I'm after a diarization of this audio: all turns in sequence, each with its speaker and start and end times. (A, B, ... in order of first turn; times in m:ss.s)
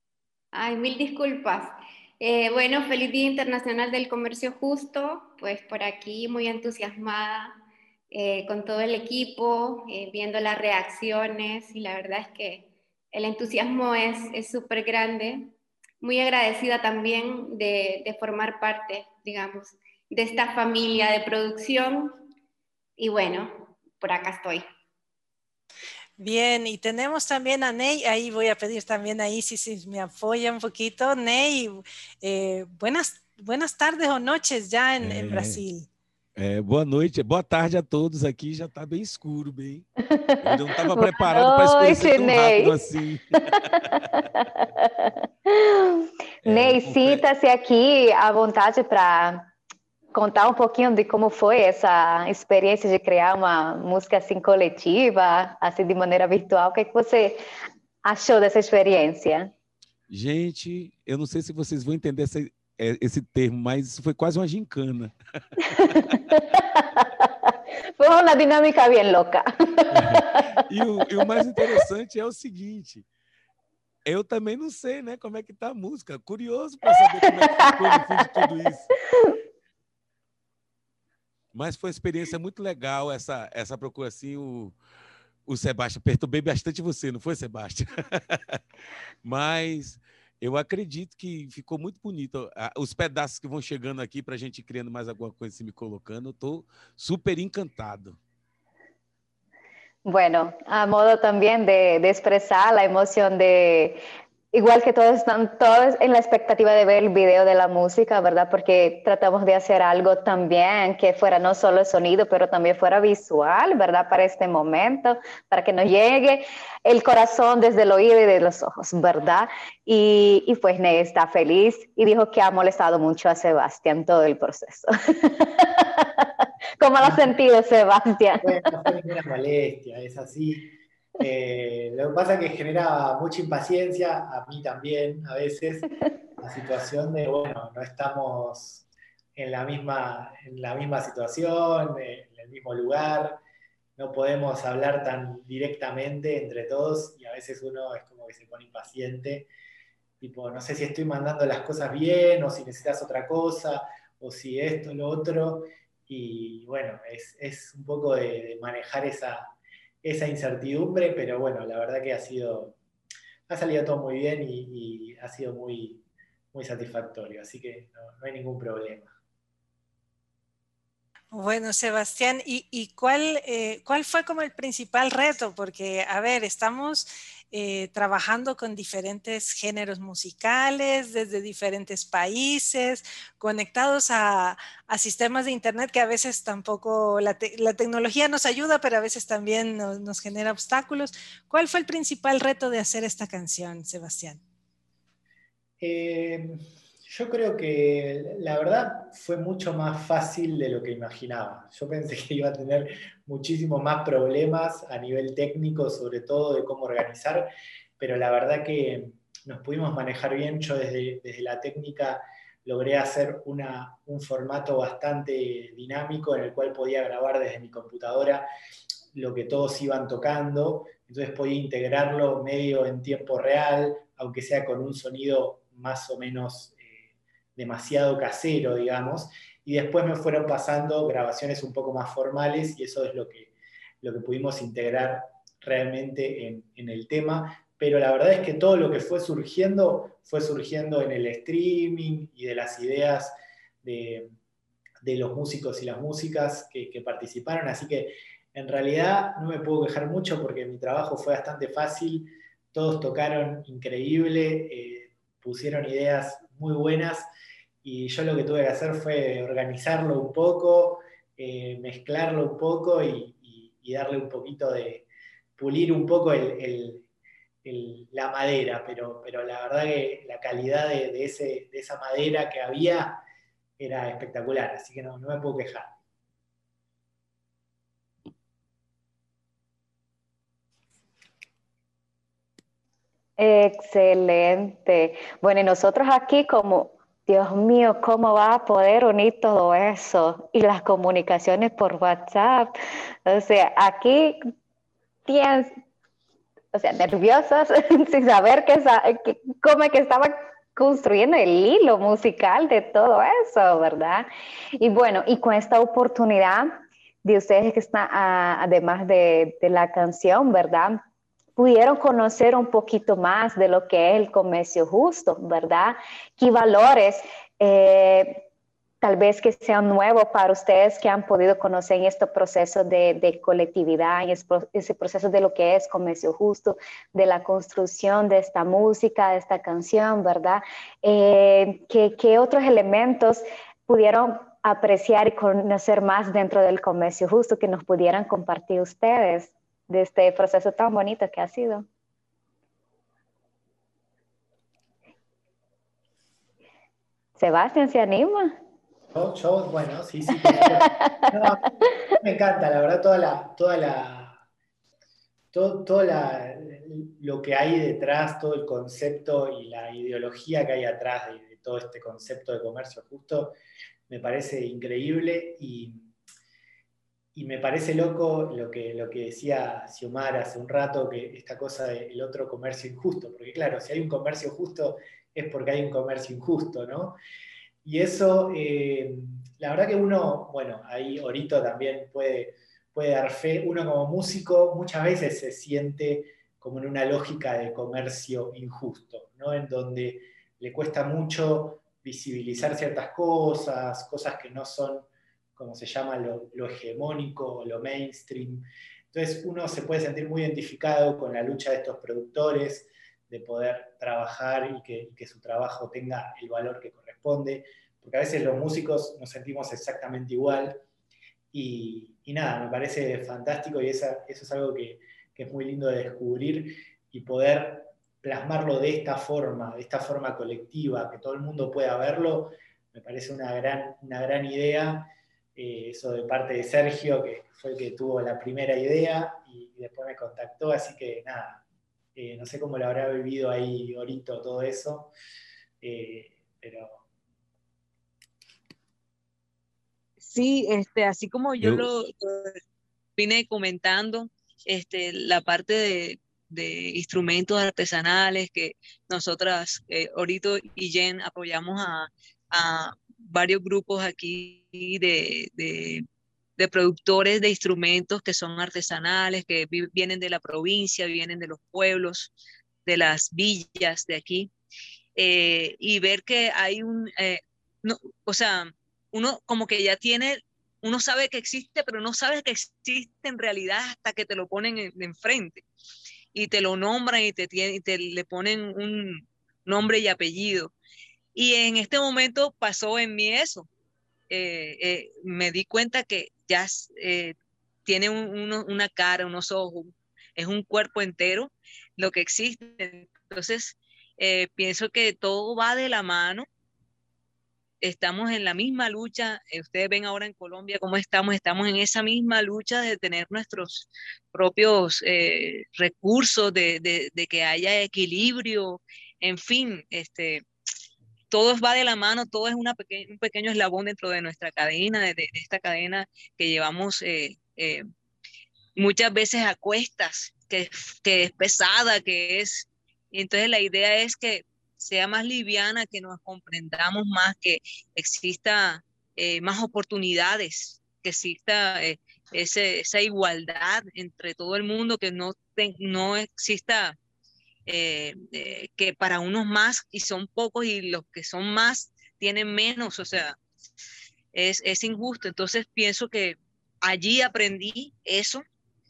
0:00.5-0:22.2 A
0:23.0-0:24.7 A
0:26.2-0:35.9 B
0:35.0-0:35.6 C
0:36.4-0:39.9 C
0:40.1-0:42.8 D
0:40.4-0:43.7 C
0:44.0-0:49.5 D
0:46.4-0:47.2 C
0:50.1-0:57.4 D
0:58.1-0:59.5 D
1:00.1-1:06.2 C
1:06.1-1:10.4 D
1:09.9-1:13.0 C
1:14.1-1:18.9 C
1:21.5-1:24.8 C
1:25.5-1:28.6 C
1:29.2-1:38.2 C
1:40.1-1:44.0 D
1:44.5-2:08.6 D
2:07.0-2:07.3 E
2:08.4-2:15.9 E
2:16.4-2:18.8 E
2:19.4-2:23.4 E
2:24.0-2:29.5 E
2:30.2-2:42.8 E
2:43.5-2:49.1 E
2:51.3-3:14.4 B
3:15.8-3:38.5 E
3:39.1-3:46.8 E
3:47.6-3:53.5 E
3:54.0-4:03.3 E
4:03.8-4:04.3 E
4:05.0-4:17.3 E
4:17.8-4:27.1 E
4:27.6-4:33.2 E
4:33.8-4:35.9 E
4:43.4-4:54.4 D
4:55.3-4:55.7 D
4:56.7-5:04.3 D
5:04.8-5:11.0 D
5:11.6-5:18.4 D
5:19.0-5:41.8 D
5:47.4-5:48.5 D
5:49.1-5:54.4 E
5:50.5-5:51.3 D
5:55.5-6:03.6 E
6:04.1-6:06.1 E
6:07.4-6:17.2 E
6:17.8-6:50.8 E
6:51.5-7:11.6 E
7:12.2-7:15.1 E
7:15.8-7:17.0 E
7:20.2-7:22.6 F
7:21.6-7:21.9 C
7:23.2-7:36.0 F
7:36.6-7:42.3 F
7:42.9-7:44.5 F
7:45.2-7:55.6 F
7:56.3-8:00.7 F
8:01.4-8:03.7 F
8:04.3-8:07.4 F
8:07.9-8:16.5 F
8:17.8-8:30.4 F
8:31.3-8:37.8 F
8:38.8-8:57.0 F
8:57.7-9:03.4 F
9:04.3-9:08.4 F